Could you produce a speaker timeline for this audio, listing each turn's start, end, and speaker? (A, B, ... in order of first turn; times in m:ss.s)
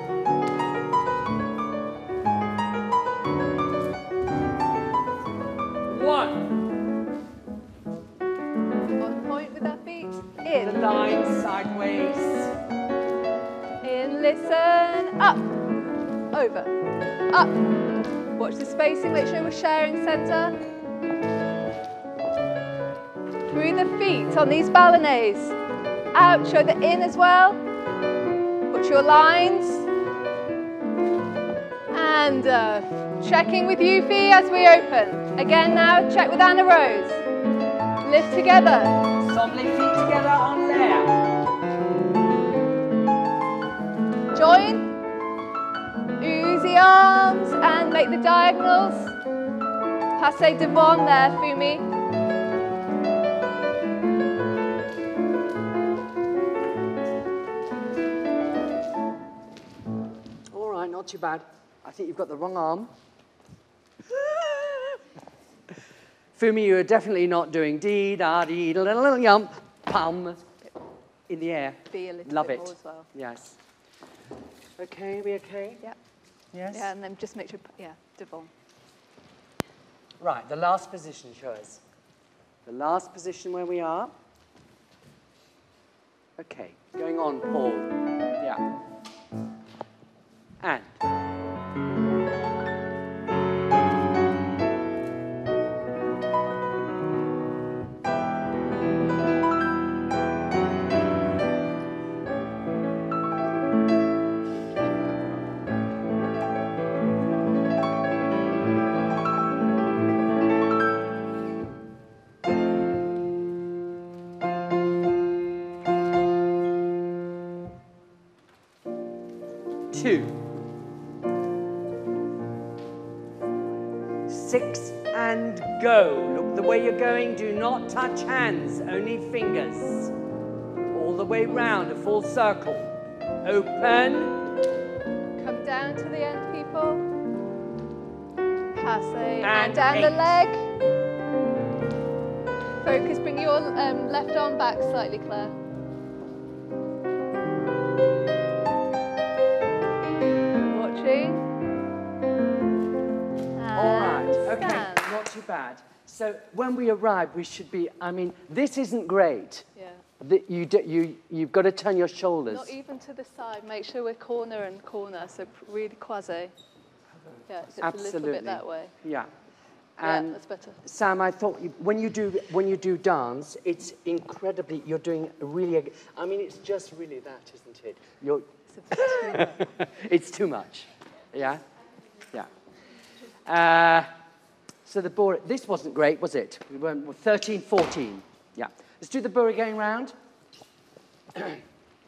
0:05.8-0:06.5 A
0:09.0-0:10.8 B
0:10.5-0:12.5 A
0:13.8-0:15.6 B
0:16.3-0:16.8 B
0:17.3-0:17.7 B
0:18.4-0:20.6 B
0:23.5-0:25.6 B
0:26.1-0:27.6 B
0:28.7-0:29.9 B
0:31.9-0:37.2 B
0:38.0-0:39.0 B
0:39.2-0:41.2 A
0:44.4-0:44.9 B
0:46.2-0:49.2 B
0:50.2-0:51.9 B
1:00.5-1:02.9 A
1:04.1-1:05.0 A
1:06.4-1:10.4 A
1:11.3-1:13.6 A
1:11.9-1:13.1 B
1:14.8-1:15.8 A
1:16.5-1:16.9 A
1:16.7-1:18.5 B
1:20.2-1:21.8 A
1:22.7-1:24.1 A
1:26.4-1:28.6 A
1:30.6-1:30.9 A
1:59.9-2:00.4 A
2:04.3-2:10.1 A
2:10.9-2:12.9 A
2:13.4-2:14.4 A
2:15.4-2:17.1 B
2:18.8-2:20.7 B
2:19.4-2:20.4 A
2:22.8-2:25.6 B
2:30.6-2:31.4 B
2:33.6-2:35.2 B
2:33.8-2:39.7 A
2:39.8-2:40.0 B
2:40.2-2:42.7 A
2:42.5-2:46.5 B
2:47.5-2:48.9 B
2:47.8-2:49.3 A
2:50.0-3:01.6 A
2:50.0-2:50.8 B
2:58.7-2:59.6 B
3:03.4-3:04.1 A
3:04.8-3:10.1 A